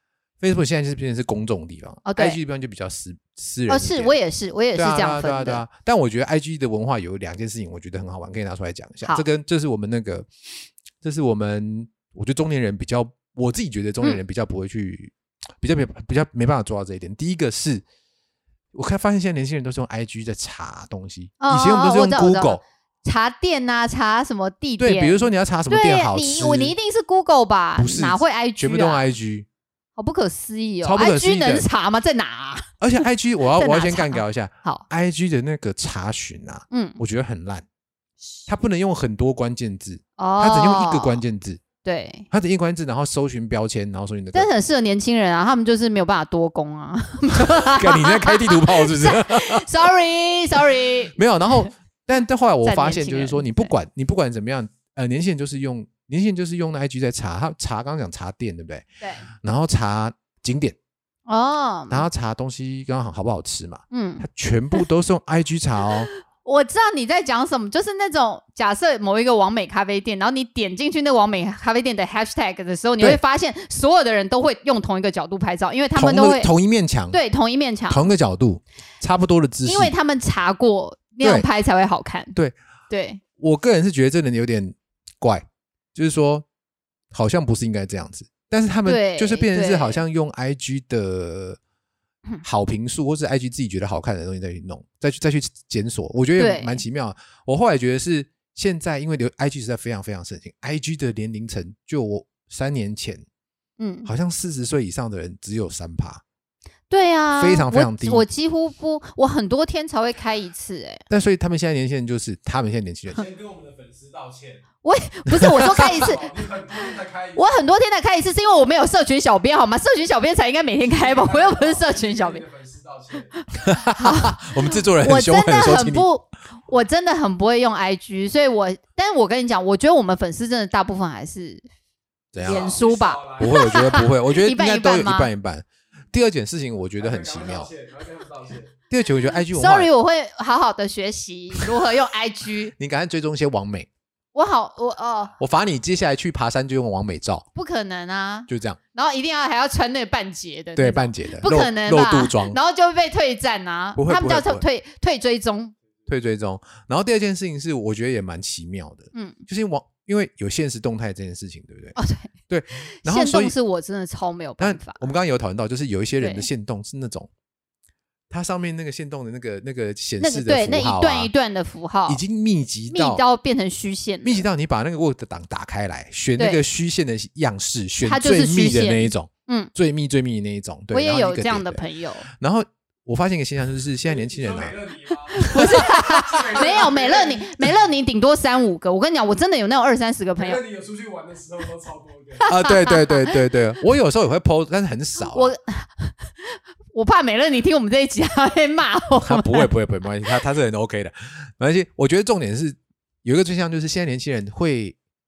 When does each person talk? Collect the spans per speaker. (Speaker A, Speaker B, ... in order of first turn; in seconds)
Speaker A: 0.4-4.1, 4.8-10.3, 11.0-17.8, 18.7-22.6, 24.8-26.7, 27.8-29.5, 30.8-31.7, 32.8-37.6, 38.5-41.6, 42.3-44.5, 47.4-49.7, 51.2-58.9, 59.4-60.8, 61.9-66.1, 76.0-77.2, 77.9-79.9, 81.2-81.5, 83.4-86.5, 87.1-91.6, 92.4-103.2, 104.1-106.2, 107.4-108.3, 111.1-113.3, 115.3-116.0, 123.6-126.1, 132.3-132.8, 133.4-137.7, 138.9-139.9, 142.8-143.9, 145.4-147.5, 148.5-148.8, 150.8-152.6, 154.0-154.6, 156.1-162.0, 162.5-163.6, 164.6-167.3, 168.3-171.3, 172.1-173.2, 174.2-184.8, 185.4-186.6, 192.5-195.5, 199.2-205.0
Speaker B: 2.1-2.4, 3.7-5.7, 21.4-29.1, 30.0-32.7, 33.6-34.9, 36.7-37.0, 38.2-38.5, 40.2-41.2, 41.8-42.3, 44.3-51.7, 52.6-53.7, 59.0-59.3, 61.3-62.1, 63.9-64.2, 66.1-76.5, 77.1-78.1, 79.7-82.4, 82.9-83.2, 88.9-90.0, 96.4-96.8, 103.8-104.1, 106.9-111.0, 114.8-116.3, 117.4-122.4, 123.5-131.6, 132.4-135.3, 139.5-142.7, 144.3-145.4, 147.6-155.7, 159.1-159.4, 162.0-162.3, 162.9-165.0, 166.2-166.5, 170.2-172.2, 172.9-174.5, 176.4-176.6, 178.0-179.7, 180.9-182.3, 185.3-190.6, 192.4-193.4, 195.2-199.7
Speaker C: 113.1-114.7, 115.7-117.6, 120.8-123.5, 132.4-134.1, 137.0-138.8, 184.1-187.7, 190.4-192.6